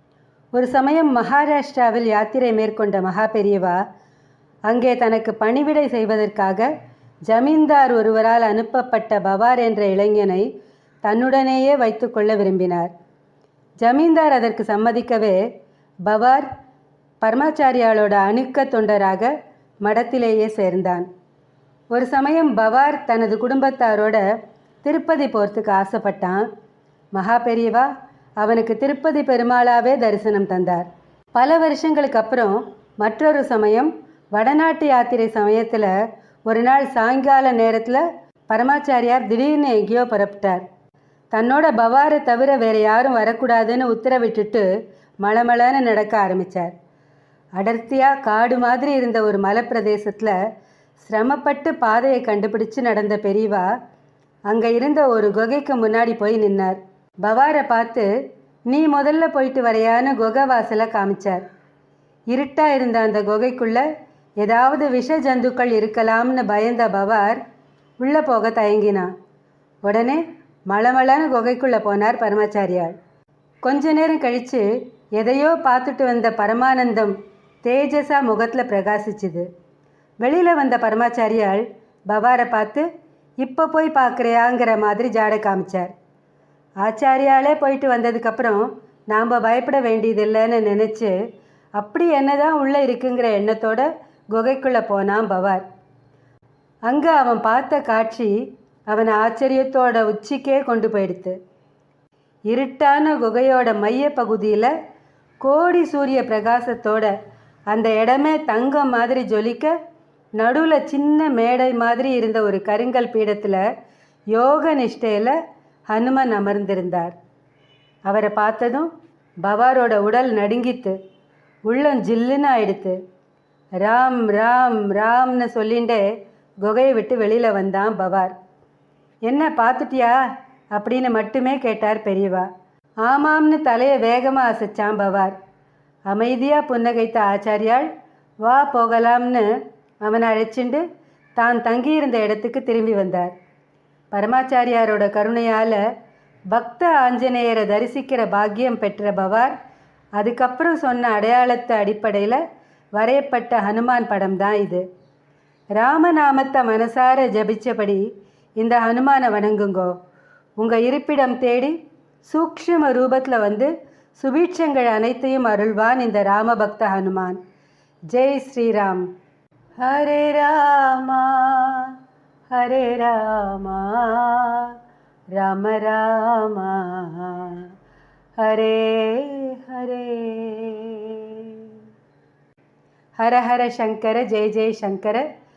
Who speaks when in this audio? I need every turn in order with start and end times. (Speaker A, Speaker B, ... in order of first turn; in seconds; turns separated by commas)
Speaker A: 0.6-3.8, Speaker A: 4.7-6.7, Speaker A: 7.3-10.5, Speaker A: 11.0-12.9, Speaker A: 13.8-15.4, Speaker A: 16.1-16.5, Speaker A: 17.2-21.1, Speaker A: 21.9-24.3, Speaker A: 24.8-26.5, Speaker A: 27.1-35.9, Speaker A: 36.5-40.6, Speaker A: 41.3-44.7, Speaker A: 45.2-46.7, Speaker A: 47.6-50.4, Speaker A: 51.0-53.7, Speaker A: 54.5-58.1, Speaker A: 58.7-61.5, Speaker A: 62.3-63.9, Speaker A: 64.4-67.4, Speaker A: 68.0-69.1, Speaker A: 69.8-73.0, Speaker A: 73.6-79.5, Speaker A: 80.2-82.9, Speaker A: 83.4-85.9, Speaker A: 86.8-91.2, Speaker A: 91.8-95.6, Speaker A: 96.9-101.4, Speaker A: 102.5-104.7, Speaker A: 105.4-107.2, Speaker A: 107.7-109.7, Speaker A: 110.4-113.6, Speaker A: 114.3-115.4, Speaker A: 115.9-117.2, Speaker A: 118.1-118.9, Speaker A: 119.4-121.0, Speaker A: 121.7-123.0, Speaker A: 123.8-126.1, Speaker A: 126.6-128.3, Speaker A: 129.3-130.2, Speaker A: 130.7-132.5, Speaker A: 133.0-135.4, Speaker A: 136.1-137.9, Speaker A: 138.4-139.5, Speaker A: 140.0-140.8, Speaker A: 141.4-143.3, Speaker A: 144.1-145.8, Speaker A: 146.5-149.6, Speaker A: 150.2-152.4, Speaker A: 153.0-154.8, Speaker A: 155.8-159.9, Speaker A: 160.6-167.4, Speaker A: 168.1-169.1, Speaker A: 169.8-171.9, Speaker A: 172.5-174.8, Speaker A: 175.3-177.7, Speaker A: 178.4-181.8, Speaker A: 183.2-185.3